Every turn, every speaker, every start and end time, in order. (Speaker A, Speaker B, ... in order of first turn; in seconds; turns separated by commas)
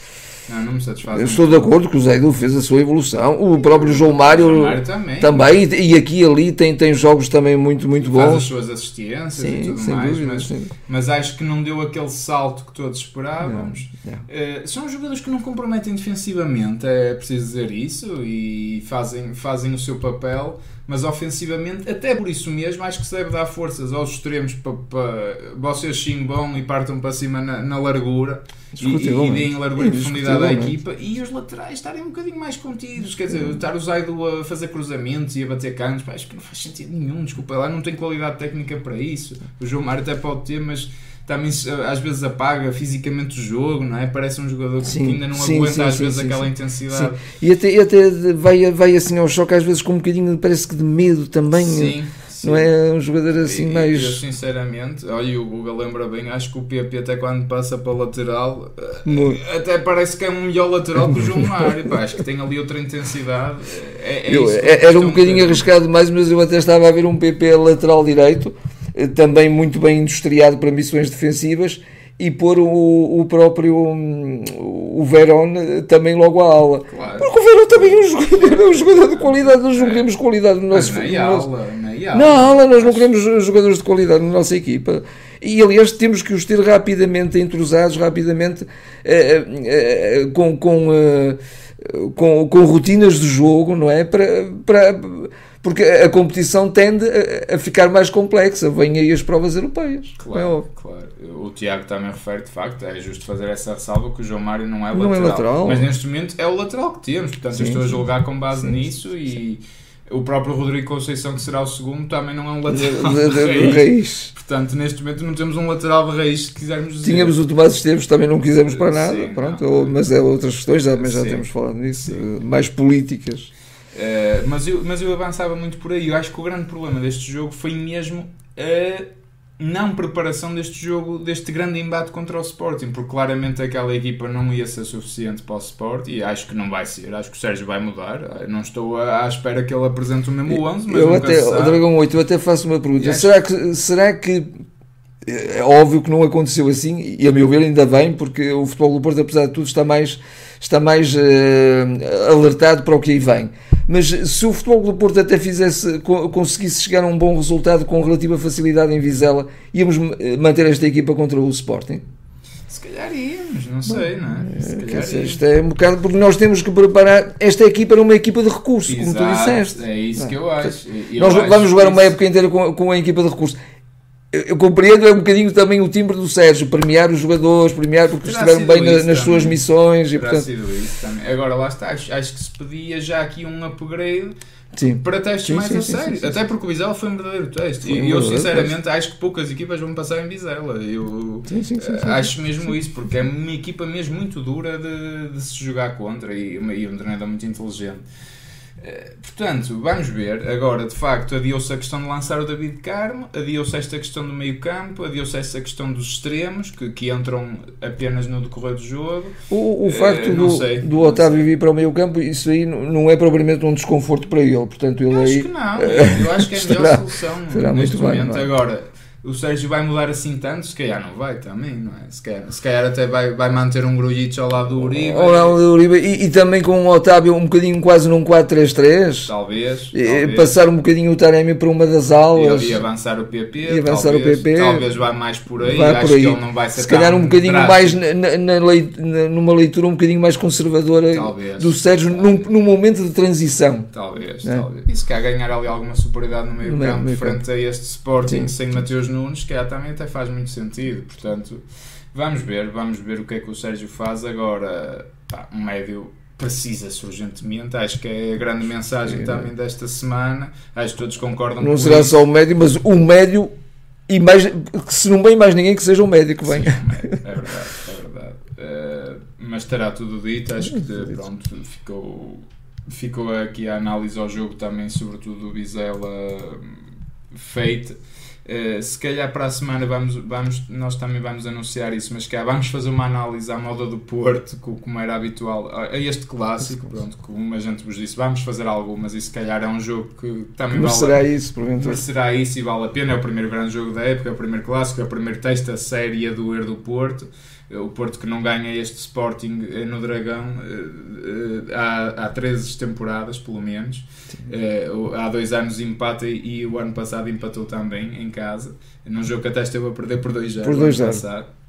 Speaker A: 0.5-1.7, Speaker B: 1.1-8.5, Speaker A: 3.6-5.4, Speaker A: 8.0-47.2, Speaker B: 9.4-10.7, Speaker B: 13.4-14.3, Speaker B: 28.8-30.7, Speaker B: 44.8-54.2, Speaker A: 51.5-52.7, Speaker A: 53.4-65.7, Speaker B: 59.0-59.4, Speaker B: 61.1-61.7, Speaker B: 64.3-81.5, Speaker A: 76.9-77.3, Speaker A: 78.1-80.1, Speaker A: 80.7-83.1, Speaker B: 82.1-100.7, Speaker A: 100.2-117.4, Speaker B: 104.9-105.9, Speaker B: 107.5-108.0, Speaker B: 112.7-114.3, Speaker B: 117.0-123.5, Speaker A: 118.7-120.0, Speaker A: 120.9-121.5, Speaker A: 123.9-129.1, Speaker A: 129.6-141.8, Speaker B: 140.5-144.5, Speaker A: 143.0-143.4, Speaker B: 145.2-162.0, Speaker A: 162.7-165.4, Speaker B: 163.9-173.6, Speaker A: 168.9-172.2, Speaker B: 174.3-180.5, Speaker A: 178.2-179.6, Speaker A: 180.2-184.3, Speaker B: 184.7-186.4, Speaker A: 185.0-198.0, Speaker B: 187.8-188.7, Speaker B: 191.5-192.3, Speaker A: 198.8-211.4, Speaker B: 209.5-218.5, Speaker A: 215.1-225.6, Speaker B: 224.8-229.3, Speaker A: 229.3-230.5, Speaker B: 229.9-232.8, Speaker A: 232.3-238.0, Speaker B: 233.7-234.8, Speaker B: 235.6-243.9, Speaker A: 241.1-242.4, Speaker A: 243.9-251.6, Speaker B: 246.7-247.4, Speaker B: 248.2-248.5, Speaker A: 252.1-262.2, Speaker B: 259.1-259.5, Speaker B: 261.6-263.5, Speaker B: 264.1-267.2, Speaker A: 266.4-291.2, Speaker B: 270.6-271.1, Speaker B: 290.7-292.0, Speaker A: 291.7-311.5, Speaker B: 310.6-311.2